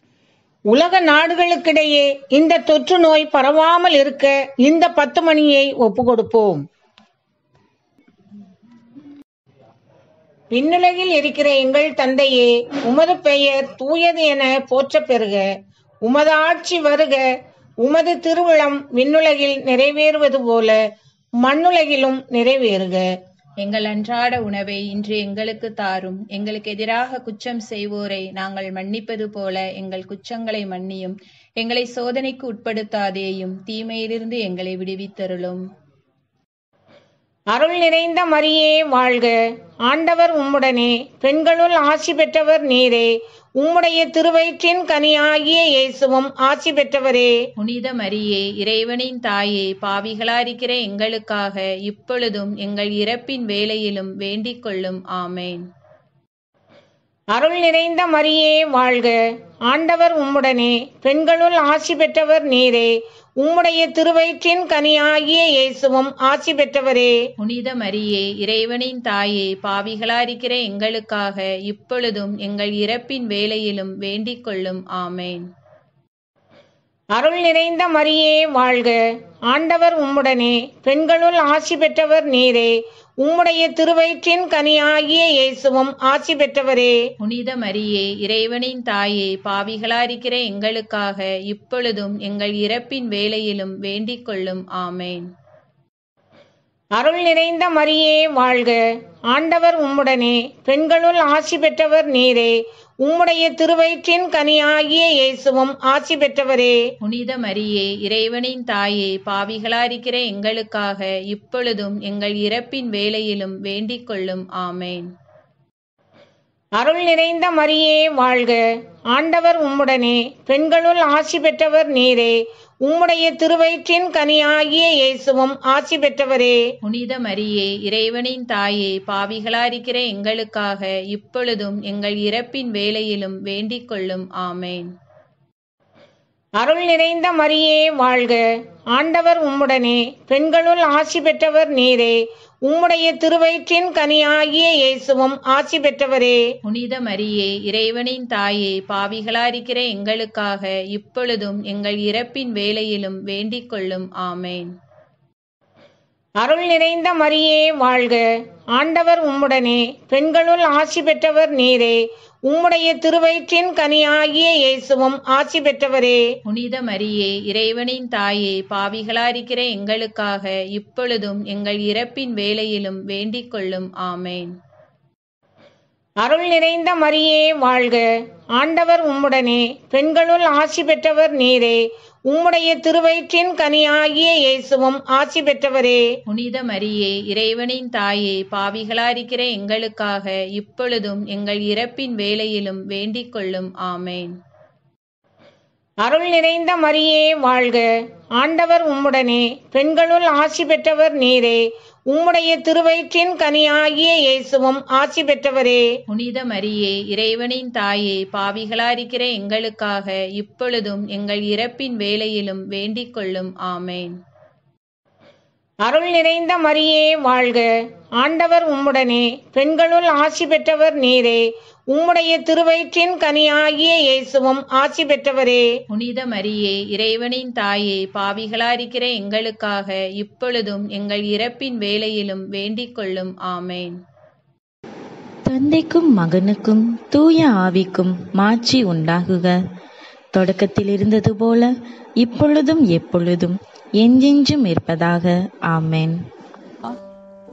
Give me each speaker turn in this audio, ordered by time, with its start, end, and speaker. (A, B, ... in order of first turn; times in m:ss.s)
0:00.7-0:06.6 A
0:10.5-0:15.4 A
0:16.0-0:17.2 A
0:17.8-0:20.8 A
0:21.4-0:23.0 A
0:23.6-0:35.6 B
0:37.5-0:39.3 A
0:39.8-0:47.3 A
0:47.6-0:55.6 B
0:57.3-0:59.2 A
0:59.7-1:07.2 A
1:07.4-1:15.4 B
1:17.1-1:19.0 A
1:19.5-1:27.0 A
1:27.2-1:35.2 B
1:37.0-1:38.8 A
1:39.3-1:46.8 A
1:47.0-1:55.0 B
1:56.8-1:58.6 A
1:59.1-2:06.6 A
2:06.8-2:14.9 B
2:16.6-2:18.4 A
2:18.9-2:26.4 A
2:26.6-2:34.7 B
2:36.4-2:38.2 A
2:38.7-2:46.2 A
2:46.4-2:54.5 B
2:56.2-2:58.0 A
2:58.6-3:06.0 A
3:06.2-3:14.3 B
3:16.0-3:17.8 A
3:18.4-3:25.8 A
3:26.1-3:34.1 B
3:35.8-3:37.7 A
3:38.2-3:45.6 A
3:45.9-3:53.9 B
3:55.4-3:59.6 C
4:00.3-4:06.2 C